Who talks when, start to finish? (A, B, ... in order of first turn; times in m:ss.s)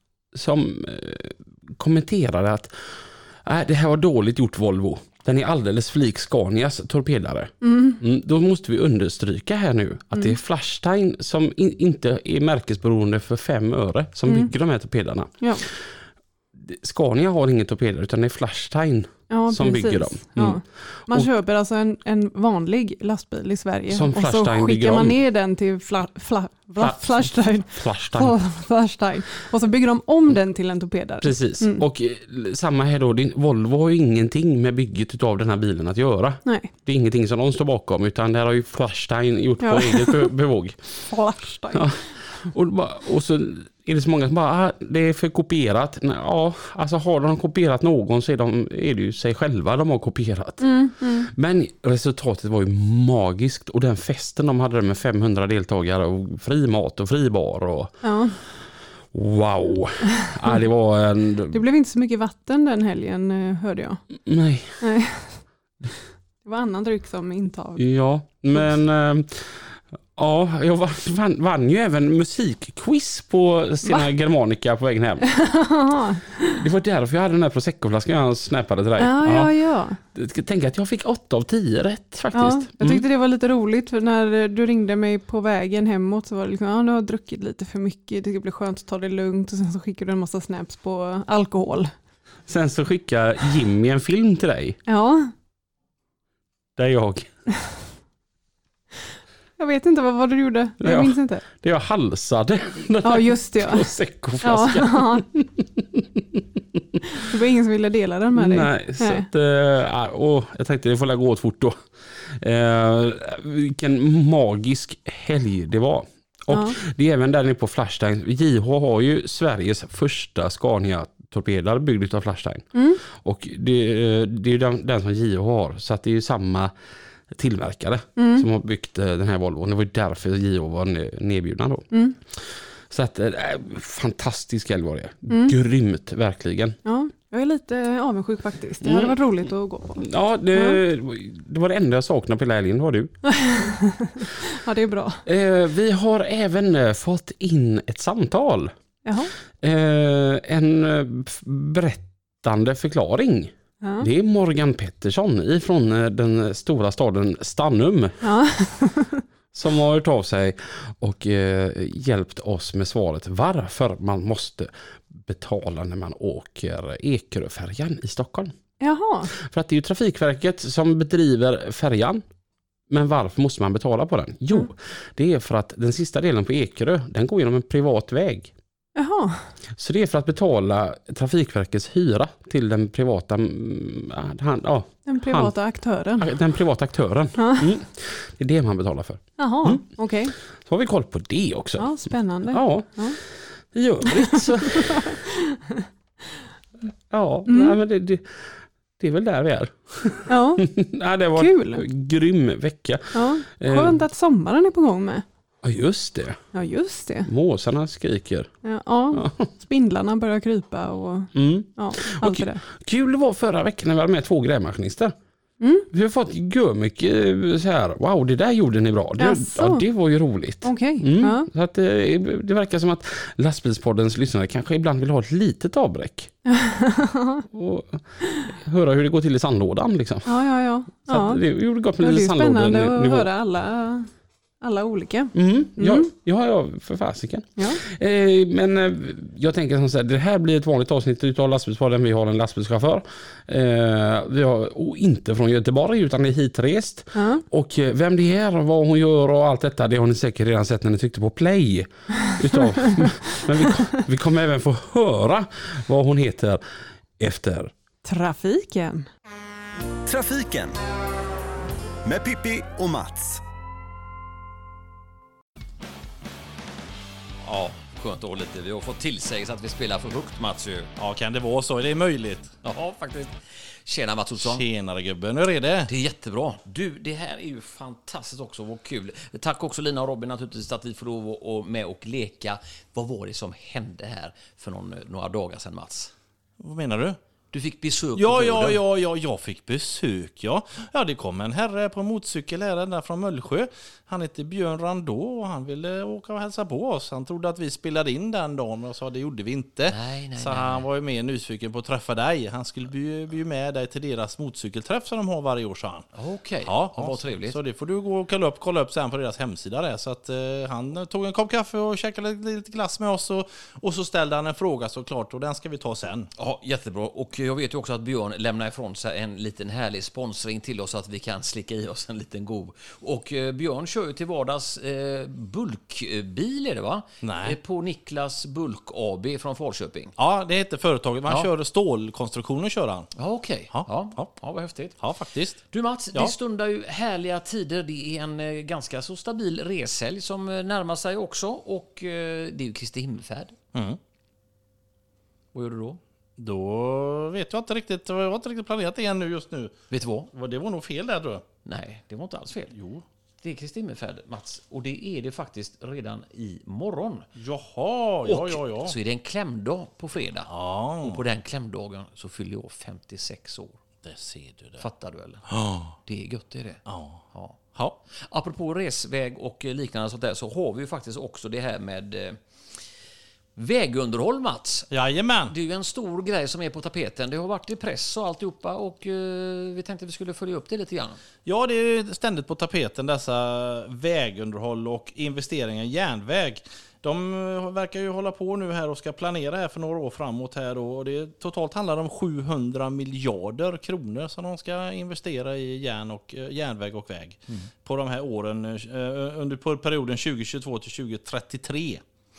0:00.3-0:21.3 A
0:07.6-0:08.0 B
0:14.3-0:14.5 B
0:19.3-0:31.8 B
0:23.9-0:25.2 A
0:26.8-0:28.4 A
0:31.2-0:41.1 A
0:36.4-0:36.7 B
0:39.6-0:40.3 B
0:41.1-0:41.8 B
0:41.7-1:01.6 A
0:50.6-0:51.3 B
0:58.0-0:58.4 B
1:01.5-1:04.0 B
1:04.2-1:04.8 A
1:04.8-1:05.5 B
1:06.4-1:07.9 B
1:07.8-1:15.4 A
1:15.3-1:16.6 B
1:16.5-1:19.5 A
1:19.0-1:20.0 B
1:20.0-1:23.0 A
1:22.3-1:31.9 B
1:32.5-1:34.8 A
1:34.9-1:35.3 B
1:36.8-1:37.4 A
1:39.6-1:41.4 B
1:40.8-1:46.8 A
1:43.0-1:43.9 B
1:44.4-1:45.2 B
1:47.2-1:49.3 B
1:48.4-2:06.7 A
1:56.5-1:56.8 B
2:02.7-2:03.0 B
2:07.3-2:16.8 A
2:08.2-2:08.5 B
2:11.9-2:12.2 B
2:15.3-2:15.5 B
2:16.8-2:20.8 B
2:18.8-2:19.2 A
2:20.0-2:23.2 A
2:23.4-2:25.2 B
2:25.2-2:28.7 A
2:29.0-2:29.3 B
2:29.6-2:38.2 A
2:33.8-2:34.1 B
2:38.2-2:39.2 B
2:39.5-2:48.5 A
2:48.8-2:49.3 B
2:49.3-2:52.2 A
2:52.9-2:58.5 A
2:59.0-2:59.5 B
2:59.8-3:05.6 A
3:05.1-3:06.3 B
3:06.2-3:09.8 A
3:07.4-3:07.7 B
3:09.4-3:10.4 B
3:10.4-3:15.2 A
3:11.8-3:13.2 B
3:14.4-3:15.1 B
3:17.1-3:24.0 A
3:17.5-3:17.8 B
3:20.3-3:20.6 B
3:21.4-3:21.8 B
3:23.1-3:25.2 B
3:25.6-3:26.5 A
3:26.5-3:27.3 B
3:27.2-3:28.5 A
3:28.6-3:32.6 B
3:29.1-3:29.5 A
3:31.3-3:35.1 A
3:35.6-3:35.9 B
3:35.9-3:46.3 A
3:39.2-3:39.8 B
3:40.6-3:41.5 B
3:46.5-3:47.4 B
3:47.5-3:50.3 A
3:50.3-3:51.4 B
3:50.9-3:53.3 A
3:52.0-3:56.1 B
3:55.3-4:16.6 A
3:57.6-3:57.8 B
4:07.1-4:07.4 B
4:17.2-4:17.7 A
4:18.0-4:19.1 B
4:20.1-4:20.7 C
4:22.0-4:23.4 C
4:27.4-4:30.9 D
4:31.0-4:32.5 E
4:32.6-4:34.6 D
4:34.4-4:35.9 E
4:35.9-4:46.1 D
4:46.6-4:47.2 E
4:47.5-4:48.8 D
4:48.2-5:06.1 E
4:59.9-5:00.8 D
5:06.2-5:07.6 D
5:06.6-5:16.3 E
5:16.4-5:30.1 D
5:27.2-5:27.6 E
5:30.2-5:33.1 E
5:33.2-5:35.1 D
5:33.7-5:34.3 E
5:35.0-5:35.6 E
5:35.7-5:43.6 D
5:45.5-5:46.0 D
5:46.4-5:49.8 E
5:49.9-5:50.3 D
5:50.3-5:51.4 E
5:51.6-5:52.7 D
5:52.7-5:53.0 E
5:53.4-5:57.3 D
5:57.4-5:58.9 E
5:58.2-6:00.5 D
6:00.5-6:01.2 E
6:01.0-6:03.8 D
6:04.0-6:04.8 E
6:04.8-6:06.8 D
6:05.5-6:05.9 E
6:06.9-6:07.2 E
6:08.1-6:12.4 D
6:13.6-6:14.9 D
6:14.9-6:15.5 E
6:15.5-6:21.2 D
6:21.5-6:42.0 E